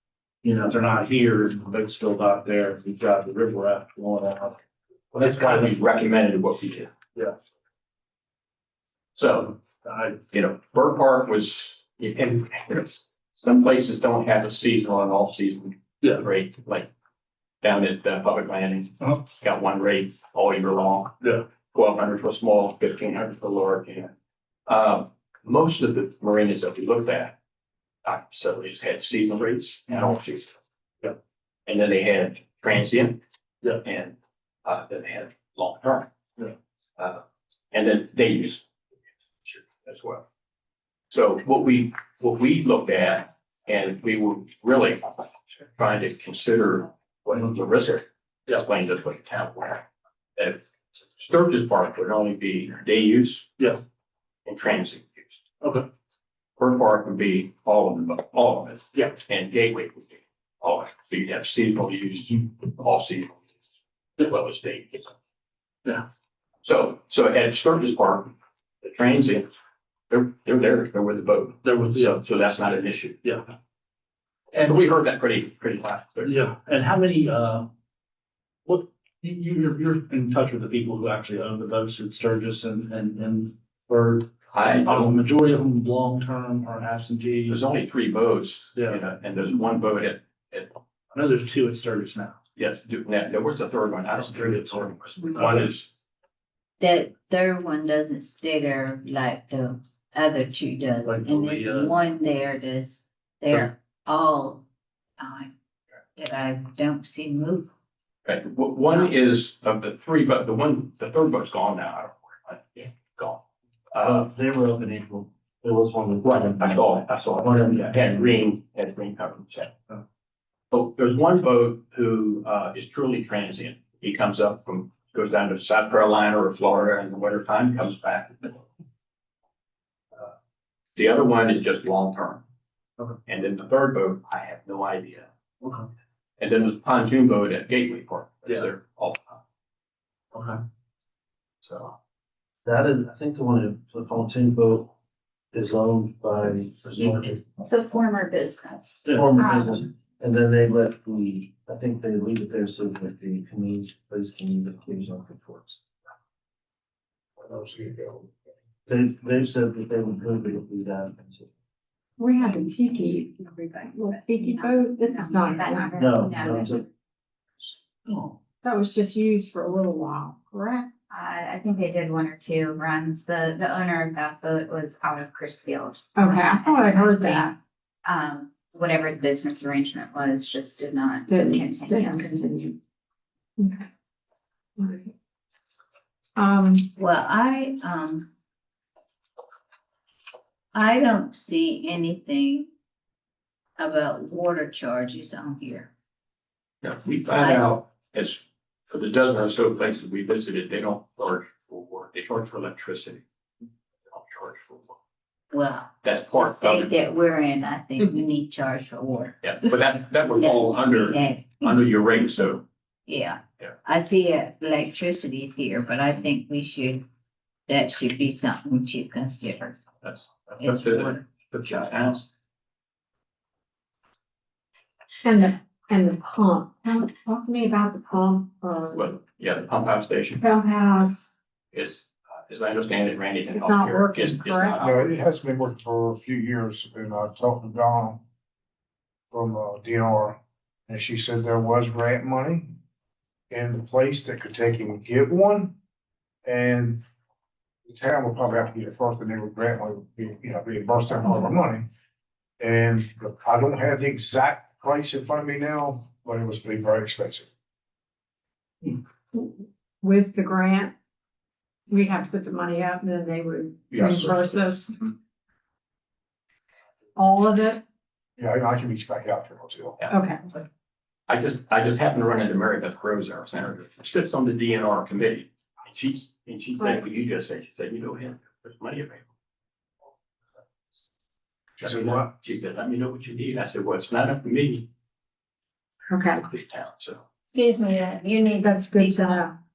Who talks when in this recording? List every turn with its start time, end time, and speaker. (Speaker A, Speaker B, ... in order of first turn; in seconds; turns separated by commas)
Speaker A: 0.4-4.6, Speaker A: 5.1-5.7, Speaker B: 5.1-6.9, Speaker B: 9.1-9.6, Speaker A: 9.8-10.2, Speaker B: 10.3-16.9, Speaker B: 17.6-21.2, Speaker A: 21.2-21.4, Speaker B: 21.7-24.1, Speaker B: 24.7-27.3, Speaker B: 28.0-30.6, Speaker B: 31.7-33.2, Speaker B: 33.8-36.1, Speaker B: 37.0-38.6, Speaker B: 39.4-40.2, Speaker B: 41.1-45.2, Speaker B: 45.7-49.8, Speaker B: 50.4-50.6, Speaker B: 51.1-53.5, Speaker B: 54.5-55.4, Speaker A: 55.6-55.9, Speaker B: 56.6-63.4, Speaker B: 64.2-65.1, Speaker B: 66.6-69.5, Speaker B: 70.1-73.2, Speaker A: 71.6-72.2, Speaker B: 74.5-76.4, Speaker A: 76.2-77.7, Speaker A: 78.7-87.7, Speaker B: 84.5-85.2, Speaker B: 87.5-90.8, Speaker A: 91.1-92.4, Speaker B: 92.5-95.9, Speaker A: 94.2-95.7, Speaker C: 96.8-104.6, Speaker A: 101.0-101.9, Speaker C: 105.2-105.5, Speaker C: 106.2-107.7, Speaker B: 108.2-113.4, Speaker B: 113.9-114.3, Speaker D: 114.0-116.9, Speaker B: 116.2-119.7, Speaker B: 120.7-128.6, Speaker B: 130.9-132.4, Speaker B: 133.2-135.3, Speaker B: 136.4-139.3, Speaker B: 141.6-141.9, Speaker D: 142.6-144.9, Speaker D: 145.5-147.5, Speaker E: 147.6-149.8, Speaker D: 149.0-155.8, Speaker F: 157.4-158.3, Speaker D: 158.9-161.5, Speaker G: 162.2-163.3, Speaker E: 162.6-166.8, Speaker G: 163.9-166.0, Speaker D: 165.9-166.8, Speaker C: 168.1-168.3, Speaker G: 168.6-170.9, Speaker E: 171.1-177.5, Speaker G: 176.2-177.5, Speaker E: 178.0-182.2, Speaker G: 181.3-182.8, Speaker G: 183.6-183.8, Speaker G: 184.8-185.1, Speaker G: 186.3-186.9, Speaker C: 186.9-188.3, Speaker C: 190.7-192.7, Speaker C: 193.8-195.9, Speaker B: 196.8-203.2, Speaker C: 197.3-197.7, Speaker B: 204.1-204.9, Speaker C: 205.5-209.4, Speaker B: 206.0-206.9, Speaker B: 209.4-212.6, Speaker C: 210.3-211.9, Speaker C: 213.1-217.0, Speaker C: 217.7-219.8, Speaker B: 220.0-222.3, Speaker C: 220.6-221.2, Speaker G: 225.2-229.0, Speaker B: 228.9-230.4, Speaker G: 230.4-231.3, Speaker B: 231.7-235.1, Speaker G: 233.5-234.8, Speaker F: 234.8-238.2, Speaker F: 239.3-242.7, Speaker F: 243.5-245.7, Speaker F: 246.4-247.0, Speaker F: 247.8-251.8, Speaker F: 252.6-257.5, Speaker G: 259.3-260.9, Speaker G: 261.9-265.0, Speaker F: 264.0-264.4, Speaker G: 267.1-267.8, Speaker F: 268.4-270.0, Speaker G: 270.1-270.4, Speaker B: 271.3-279.2, Speaker B: 281.8-284.9, Speaker F: 281.8-282.3, Speaker G: 286.1-286.4, Speaker B: 286.5-287.2, Speaker C: 287.5-289.5, Speaker G: 288.6-289.5